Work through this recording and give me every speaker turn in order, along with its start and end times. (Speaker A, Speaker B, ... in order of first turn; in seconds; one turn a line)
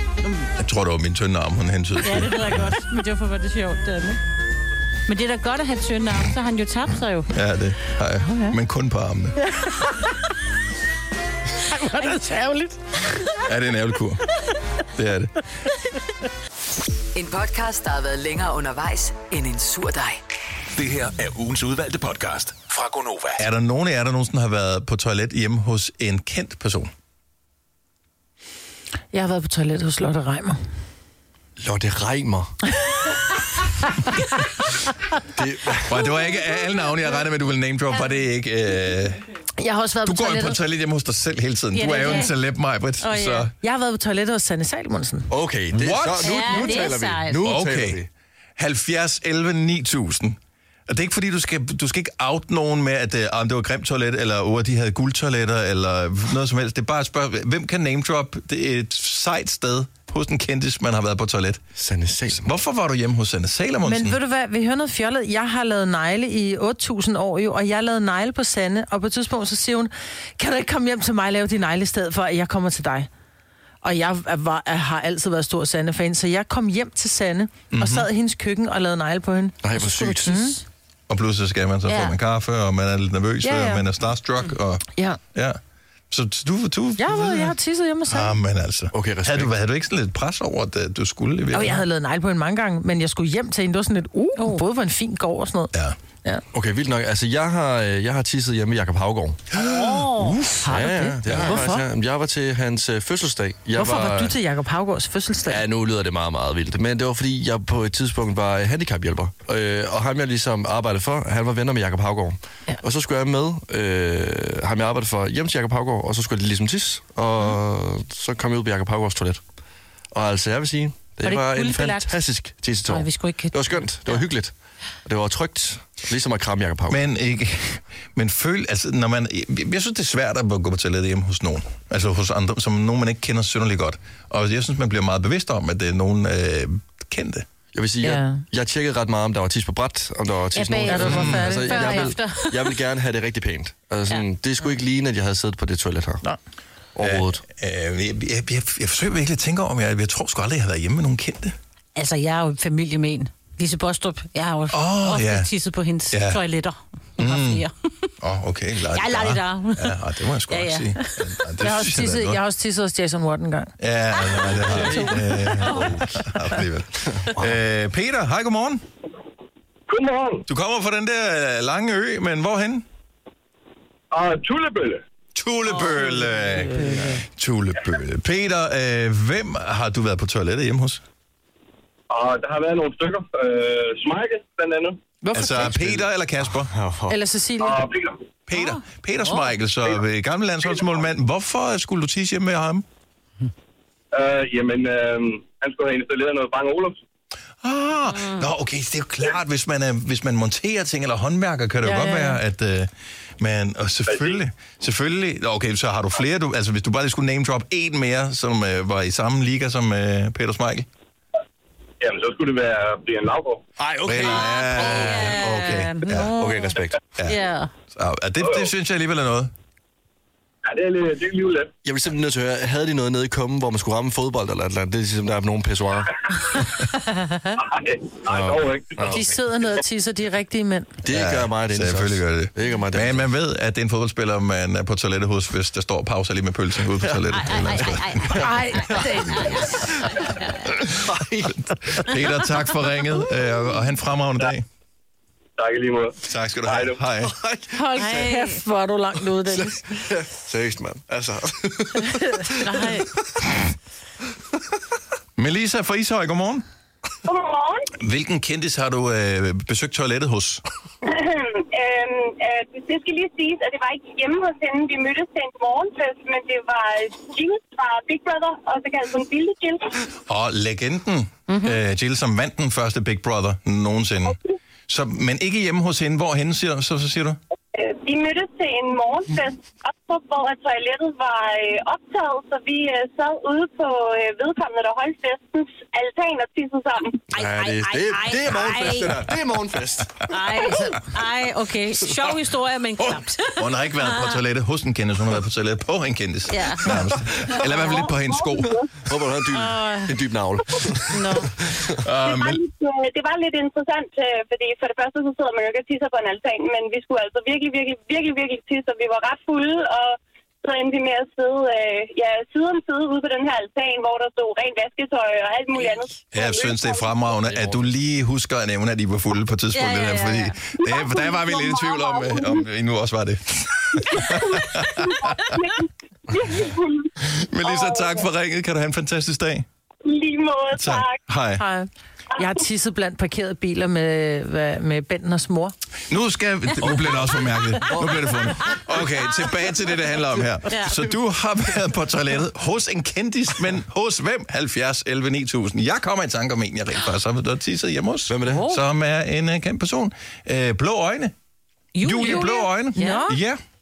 Speaker A: 0.2-0.5
Speaker B: 0.6-2.8
Speaker A: 2.0-4.2
Speaker A: 5.1-7.3
Speaker B: 7.3-9.4
Speaker A: 8.3-8.5
Speaker C: 11.7-12.8
Speaker B: 13.4-14.2
Speaker B: 14.9-15.3
Speaker D: 17.1-20.2
Speaker E: 20.7-23.4
Speaker B: 23.4-26.9
Speaker C: 29.1-30.6
Speaker F: 31.6-32.5
Speaker F: 35.3-36.0
Speaker B: 35.9-39.2
Speaker C: 39.6-40.6
Speaker B: 40.0-43.5
Speaker A: 41.7-42.3
Speaker A: 43.0-43.5
Speaker C: 43.6-45.3
Speaker F: 45.3-48.1
Speaker B: 45.7-48.0
Speaker A: 46.2-47.4
Speaker B: 48.6-61.6
Speaker F: 61.8-62.5
Speaker B: 62.4-64.2
Speaker C: 63.9-73.1
Speaker C: 73.8-79.6
Speaker B: 77.7-78.1
Speaker F: 79.6-80.4
Speaker A: 79.8-80.5
Speaker C: 80.2-80.6
Speaker B: 81.1-85.6
Speaker C: 83.4-83.8
Speaker B: 86.1-87.5
Speaker C: 87.0-88.4
Speaker B: 88.1-91.8
Speaker F: 88.9-89.5
Speaker C: 91.5-95.7
Speaker F: 96.5-100.1
Speaker B: 99.5-100.7
Speaker A: 99.9-100.3
Speaker F: 100.6-104.4
Speaker C: 100.7-101.8
Speaker B: 101.2-101.5
Speaker C: 103.8-105.6
Speaker F: 105.5-119.4
Speaker F: 120.1-124.5
Speaker A: 121.2-122.2
Speaker A: 122.9-124.3
Speaker F: 125.0-127.0
Speaker B: 126.9-137.5
Speaker F: 137.7-146.2
Speaker C: 138.0-138.4
Speaker A: 140.5-142.8
Speaker C: 140.9-142.1
Speaker B: 141.0-141.5
Speaker F: 146.9-147.4
Speaker B: 147.0-151.6
Speaker A: 152.0-158.1
Speaker B: 154.7-155.5
Speaker B: 156.1-156.4
Speaker B: 157.2-157.6
Speaker B: 158.2-162.4
Speaker A: 158.9-160.0
Speaker A: 160.5-161.1
Speaker C: 161.6-163.7
Speaker B: 163.8-168.8
Speaker F: 164.5-166.3
Speaker F: 167.1-167.5
Speaker G: 169.9-170.5
Speaker B: 170.5-172.8
Speaker G: 174.1-175.0
Speaker B: 175.3-181.0
Speaker C: 176.0-177.2
Speaker G: 182.1-185.0
Speaker C: 185.2-185.8
Speaker B: 185.3-186.7
Speaker F: 185.6-186.0
Speaker F: 186.6-187.2
Speaker C: 187.1-187.9
Speaker G: 187.6-188.2
Speaker B: 188.5-192.8
Speaker G: 194.1-197.0
Speaker B: 197.6-210.9
Speaker A: 198.1-198.5
Speaker C: 201.8-202.4
Speaker G: 204.1-204.4
Speaker G: 212.0-213.6
Speaker F: 213.8-215.3
Speaker B: 214.1-216.3
Speaker A: 214.2-217.7
Speaker F: 216.1-217.1
Speaker B: 217.9-219.5
Speaker G: 220.7-221.7
Speaker F: 221.8-226.6
Speaker G: 227.6-229.2
Speaker F: 228.3-229.4
Speaker C: 229.1-230.9
Speaker F: 231.0-233.3
Speaker B: 231.1-238.4
Speaker F: 237.0-240.3
Speaker A: 237.3-240.6
Speaker C: 238.4-239.6
Speaker B: 240.8-244.7
Speaker F: 240.9-242.1
Speaker G: 245.6-247.0
Speaker B: 246.2-247.3
Speaker F: 247.2-248.0
Speaker C: 247.7-250.0
Speaker A: 247.9-248.6
Speaker F: 249.5-253.1
Speaker C: 252.0-252.4
Speaker A: 252.6-253.1
Speaker B: 255.4-256.6
Speaker H: 257.3-257.9
Speaker B: 258.0-260.6
Speaker H: 261.0-270.0
Speaker B: 270.2-277.4
Speaker H: 277.7-287.3
Speaker A: 287.3-289.3
Speaker F: 287.3-290.7
Speaker A: 290.3-294.4
Speaker B: 293.5-298.8
Speaker A: 296.5-297.0
Speaker F: 297.0-297.5
Speaker A: 297.6-297.9
Speaker H: 297.8-298.9
Speaker F: 299.0-302.0
Speaker A: 299.5-300.2
Speaker A: 301.1-301.5
Speaker B: 302.0-302.6
Speaker H: 302.2-317.3
Speaker B: 316.3-325.6
Speaker F: 317.4-317.9
Speaker A: 319.7-320.6
Speaker H: 320.8-322.6
Speaker H: 324.0-327.1
Speaker B: 327.2-329.7
Speaker H: 327.6-328.2
Speaker H: 330.0-331.2
Speaker B: 330.7-331.6
Speaker C: 331.6-335.7
Speaker B: 336.1-351.3
Speaker F: 337.8-338.3
Speaker A: 340.7-341.0
Speaker F: 348.3-348.7
Speaker A: 351.9-353.3
Speaker B: 352.0-353.6
Speaker C: 352.2-353.4